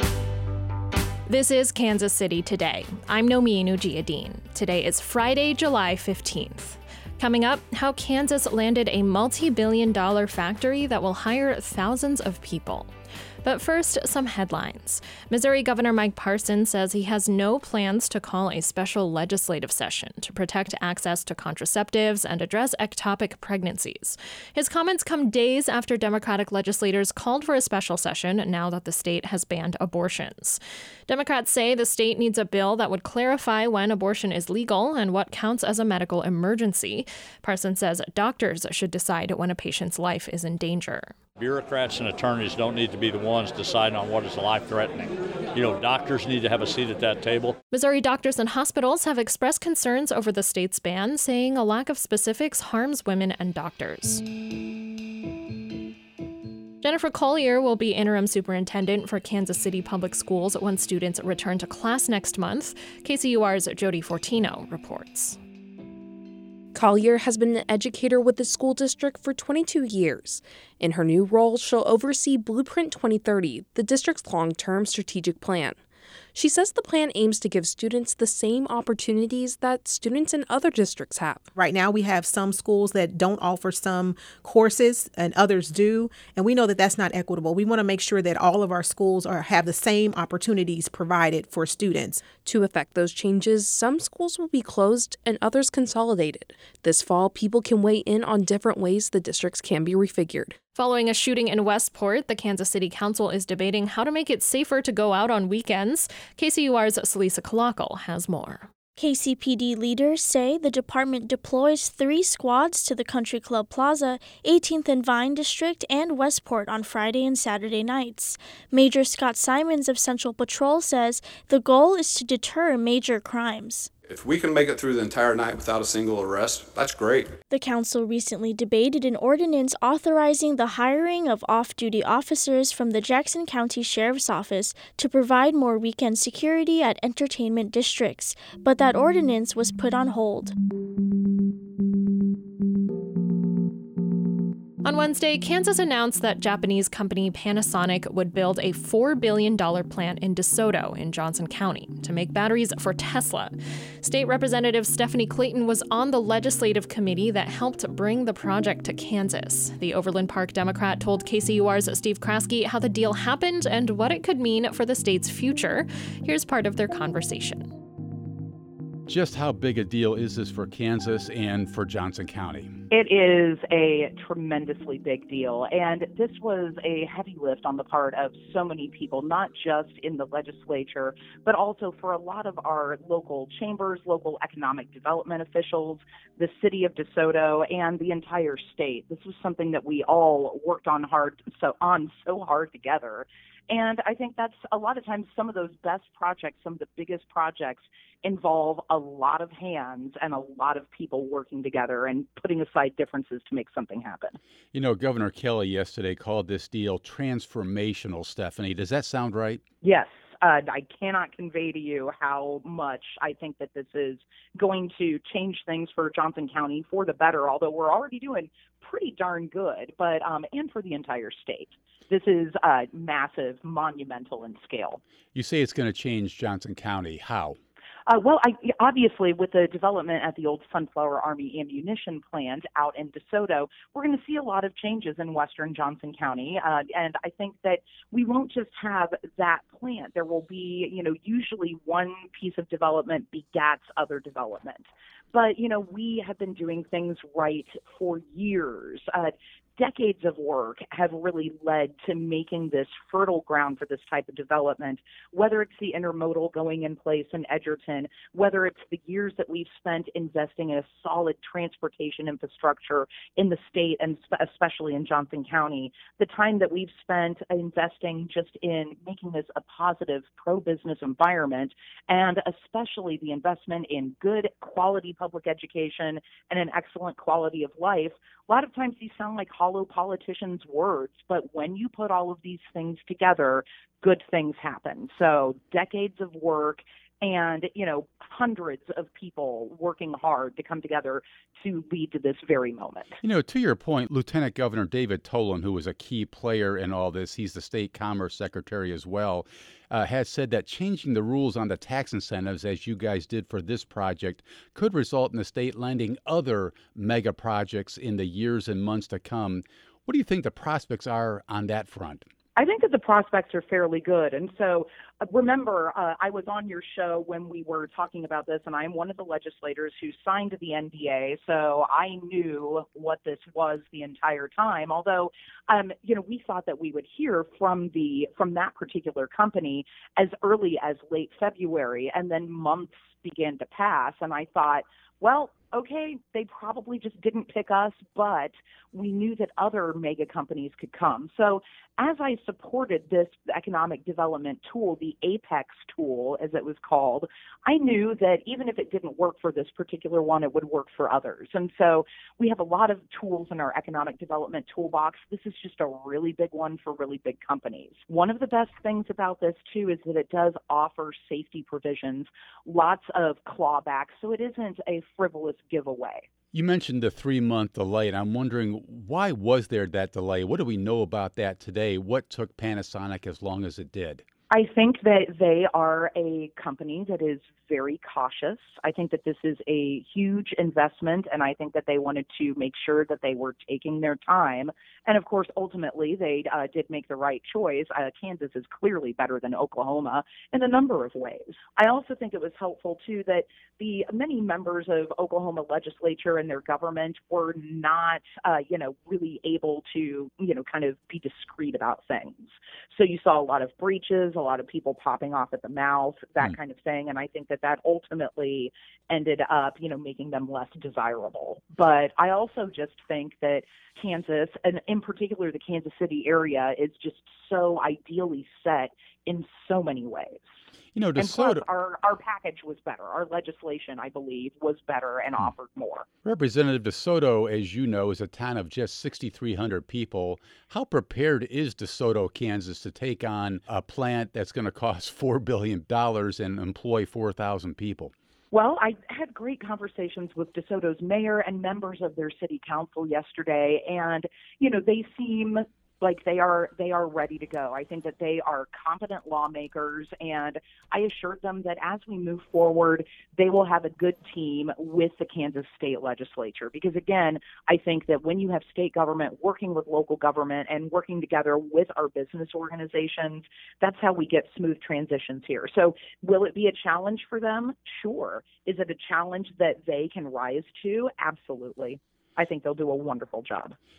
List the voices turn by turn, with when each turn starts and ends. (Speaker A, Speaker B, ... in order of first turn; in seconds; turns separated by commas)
Speaker A: 1.3-12.9, Speaker A: 13.4-41.1, Speaker B: 41.4-47.6, Speaker A: 47.7-54.2, Speaker A: 56.8-65.4, Speaker C: 66.7-75.8, Speaker C: 76.3-81.5, Speaker D: 81.5-92.3, Speaker C: 92.4-100.5, Speaker A: 100.8-108.7, Speaker E: 109.0-123.9, Speaker F: 124.1-127.3, Speaker E: 127.5-140.5, Speaker A: 144.8-167.7, Speaker G: 169.1-172.8, Speaker H: 172.9-204.4, Speaker G: 204.7-209.6, Speaker H: 209.8-225.0, Speaker G: 225.3-227.6, Speaker H: 228.1-293.2, Speaker G: 293.2-312.2, Speaker H: 312.6-366.2, Speaker G: 366.5-374.2, Speaker H: 374.5-420.4, Speaker G: 420.9-421.6, Speaker H: 421.2-426.1, Speaker G: 426.2-438.1, Speaker H: 438.5-473.8